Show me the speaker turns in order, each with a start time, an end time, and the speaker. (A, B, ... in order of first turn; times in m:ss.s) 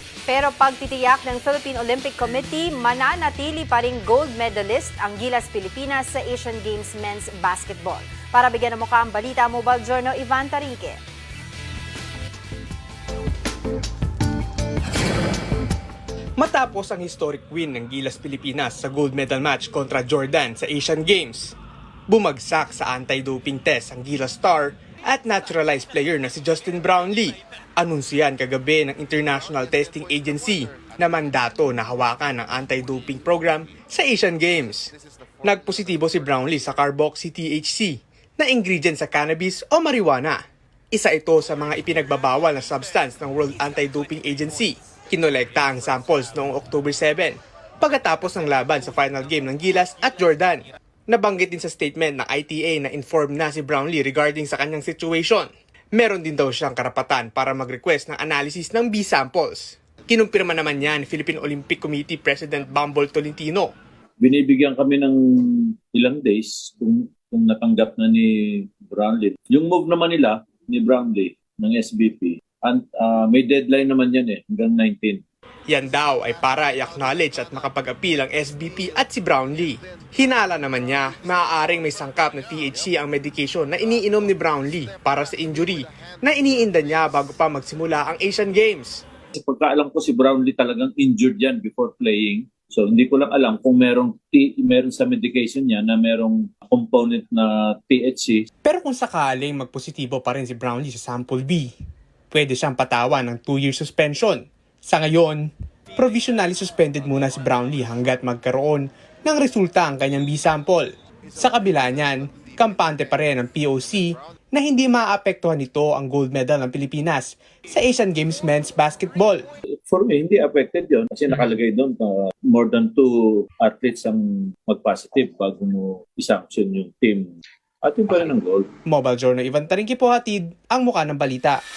0:00.3-0:11.0 A
0:16.4-0:21.5 B
0:22.1-0:34.9 B
0:35.4-0:40.4 B
0:40.9-1:03.7 B
1:04.2-1:15.2 C
1:15.7-1:29.0 B
1:29.3-1:38.5 C
1:38.6-1:41.7 B
1:42.3-1:59.4 B
1:59.9-2:08.7 C
2:08.8-2:11.6 B